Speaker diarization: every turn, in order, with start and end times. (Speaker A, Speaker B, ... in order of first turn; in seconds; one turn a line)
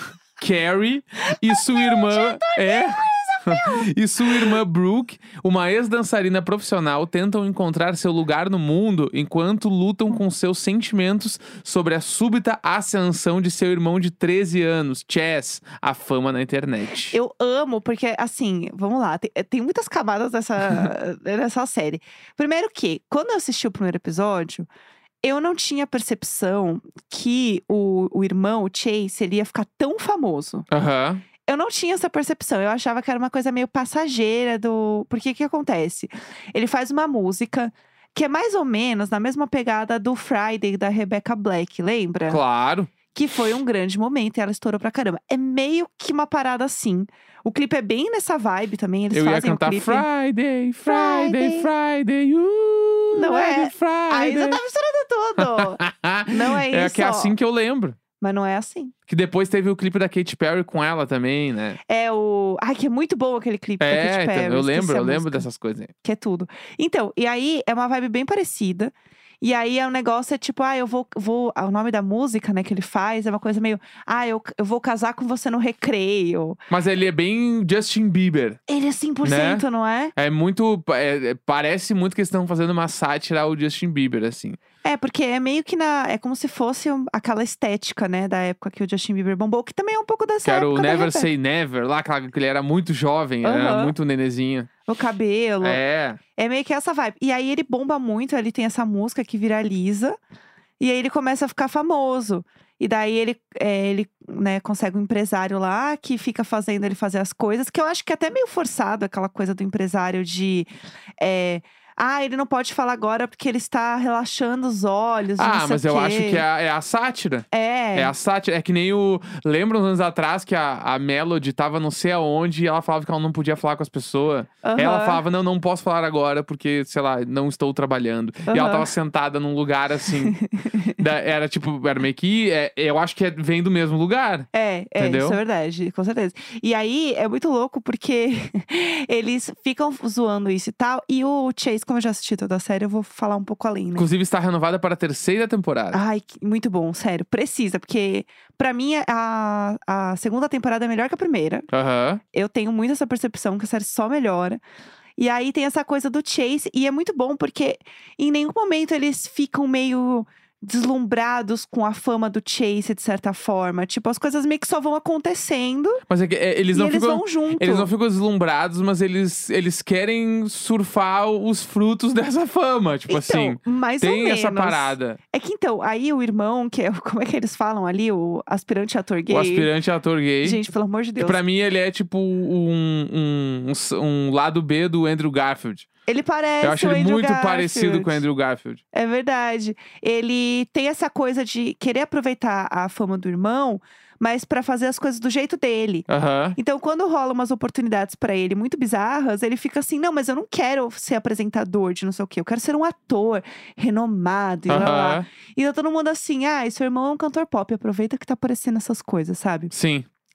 Speaker A: 0.4-17.1
Speaker B: 1.3-4.5
Speaker B: 17.1-24.7
Speaker B: 25.2-30.7
Speaker A: 30.7-31.2
Speaker B: 31.5-42.4
Speaker A: 42.3-42.9
Speaker B: 43.1-50.0
Speaker A: 49.1-54.6
Speaker B: 50.8-51.7
Speaker B: 53.1-57.3
Speaker A: 55.4-58.0
Speaker B: 58.2-58.9
Speaker A: 59.1-61.8
Speaker B: 61.9-65.5
Speaker A: 63.8-65.9
Speaker B: 66.0-76.6
Speaker A: 76.7-78.6
Speaker B: 78.7-80.1
Speaker A: 79.2-79.6
Speaker A: 80.2-84.6
Speaker B: 84.8-91.3
Speaker A: 90.4-94.7
Speaker B: 93.4-93.9
Speaker B: 94.9-95.8
Speaker A: 95.6-96.2
Speaker B: 96.3-100.2
Speaker B: 100.8-116.4
Speaker A: 115.4-130.4
Speaker B: 117.5-118.1
Speaker B: 124.6-125.2
Speaker B: 128.5-128.9
Speaker B: 130.2-131.0
Speaker A: 130.9-134.5
Speaker B: 134.5-144.1
Speaker A: 135.0-135.4
Speaker A: 143.9-146.0
Speaker B: 145.9-151.7
Speaker A: 151.7-152.2
Speaker B: 152.3-154.6
Speaker B: 155.2-166.0
Speaker A: 166.1-175.2
Speaker B: 166.7-167.9
Speaker B: 173.1-179.7
Speaker A: 179.3-180.6
Speaker B: 180.4-181.4
Speaker A: 181.2-185.9
Speaker B: 186.1-188.2
Speaker A: 186.6-188.8
Speaker B: 188.9-209.7
Speaker A: 196.1-196.6
Speaker A: 204.7-205.2
Speaker A: 209.7-210.1